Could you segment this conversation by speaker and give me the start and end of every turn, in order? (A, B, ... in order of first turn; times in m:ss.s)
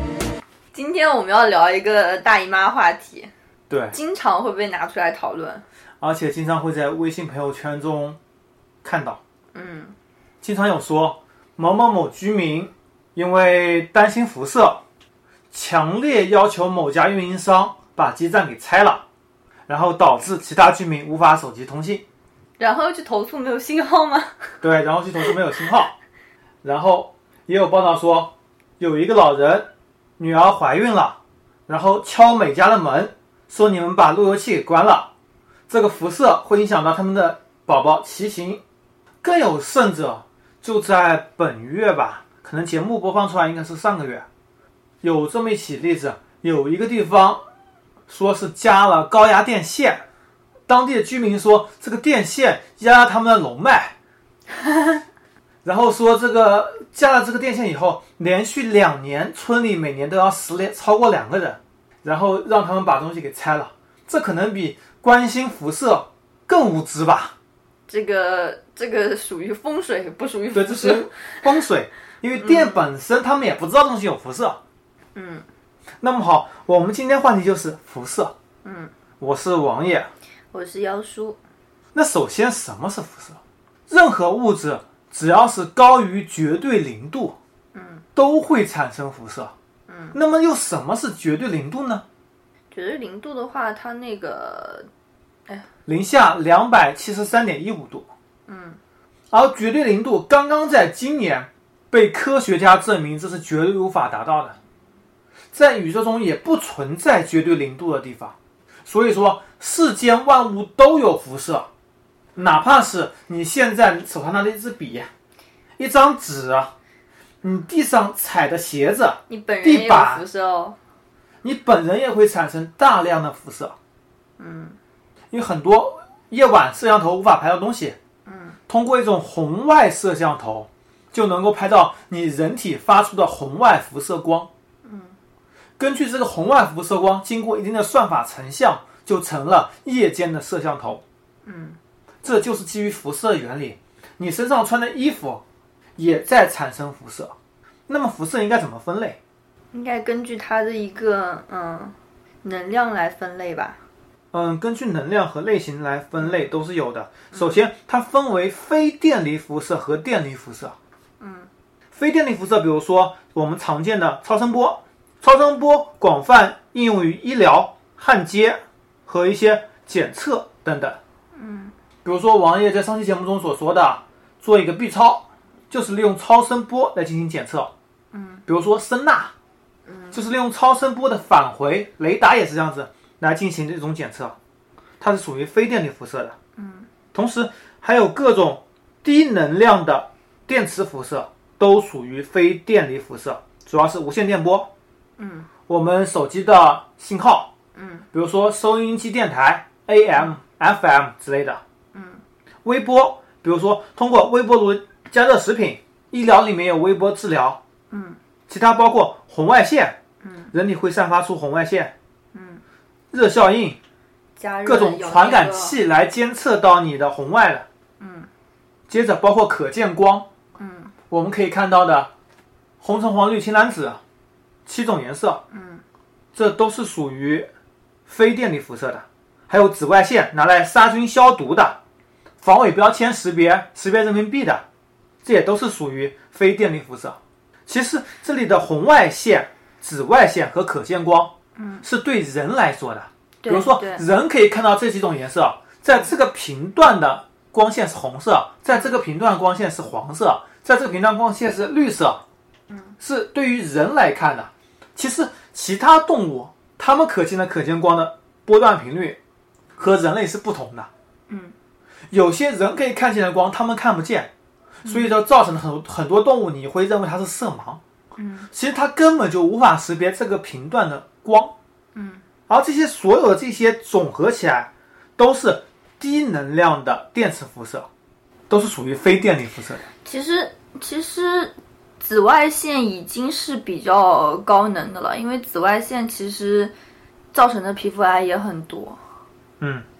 0:00.7-0:03.3 A
0:03.7-0:04.0 B
0:03.9-0:05.6 A
0:06.0-0:08.2 B
0:08.8-0:09.2 B
0:09.5-0:09.9 A
0:10.4-0:14.8 B
0:15.5-0:19.0 B
0:19.7-0:22.0 B
0:22.6-0:24.5 A
0:24.6-0:25.9 B
0:26.6-0:35.1 B
0:35.7-0:38.6 B
0:39.2-0:44.3 B
0:45.0-0:47.4 B
0:48.1-0:50.0 B
0:50.7-0:53.9 B
0:55.6-1:07.3 B
1:07.9-1:11.4 A
1:10.5-1:14.6 B
1:12.4-1:12.9 A
1:15.1-1:15.4 A
1:16.0-1:18.3 B
1:18.6-1:18.9 A
1:19.2-1:20.1 B
1:20.5-1:21.4 A
1:21.9-1:27.4 B
1:27.7-1:28.0 A
1:28.2-1:29.5 B
1:29.9-1:30.2 A
1:30.1-1:32.0 B
1:32.7-1:34.9 A
1:35.8-1:38.1 B
1:38.5-1:38.8 A
1:39.3-1:44.6 B
1:45.5-1:51.7 B
1:52.4-1:55.1 B
1:55.8-1:56.7 B
1:57.4-2:00.2 B
1:59.3-2:00.8 A
2:01.4-2:03.8 B
2:04.4-2:04.8 A
2:05.3-2:08.0 B
2:08.2-2:08.6 A
2:08.7-2:14.5 B
2:14.8-2:15.2 A
2:15.8-2:21.0 B
2:21.4-2:21.8 A
2:22.2-2:25.4 B
2:26.0-2:27.4 B
2:27.9-2:29.2 B
2:29.7-2:33.8 A
2:34.3-2:40.8 B
2:36.2-2:36.5 A
2:37.3-2:37.6 A
2:41.2-2:41.5 A
2:41.9-2:51.0 B
2:51.3-2:51.7 A
2:52.0-2:57.7 B
2:58.1-2:58.4 A
2:58.5-2:59.3 B
2:59.9-3:00.2 A
3:00.1-3:04.4 B
3:05.0-3:06.4 B
3:06.6-3:06.9 A
3:07.1-3:14.7 B
3:15.2-3:15.5 A
3:15.7-3:17.5 B
3:17.7-3:18.0 A
3:18.1-3:21.6 B
3:21.9-3:22.2 A
3:22.6-3:27.6 B
3:27.9-3:28.2 A
3:28.5-3:30.0 B
3:30.2-3:30.5 A
3:30.5-3:31.9 B
3:32.3-3:32.6 A
3:33.1-3:33.8 B
3:34.4-3:35.8 A
3:34.6-3:37.7 B
3:38.0-3:38.3 A
3:38.9-3:40.3 B
3:40.6-3:40.9 A
3:41.1-3:42.1 B
3:42.8-3:44.0 B
3:44.6-3:45.4 B
3:45.5-3:45.8 A
3:46.3-3:47.5 B
3:48.1-3:51.8 B
3:52.4-3:54.6 B
3:55.2-4:12.2 B
4:01.6-4:01.8 A
4:03.4-4:04.0 A
4:12.7-4:12.9 A
4:13.0-4:19.2 B
4:19.8-4:20.9 B
4:21.3-4:21.5 A
4:22.1-4:24.3 B
4:24.8-4:25.1 A
4:24.8-4:27.8 B
4:28.2-4:28.5 A
4:28.5-4:31.5 B
4:31.9-4:32.2 A
4:32.5-4:37.9 B
4:38.5-4:39.8 B
4:40.0-4:46.7 A
4:47.3-4:49.0 A
4:49.6-4:49.8 B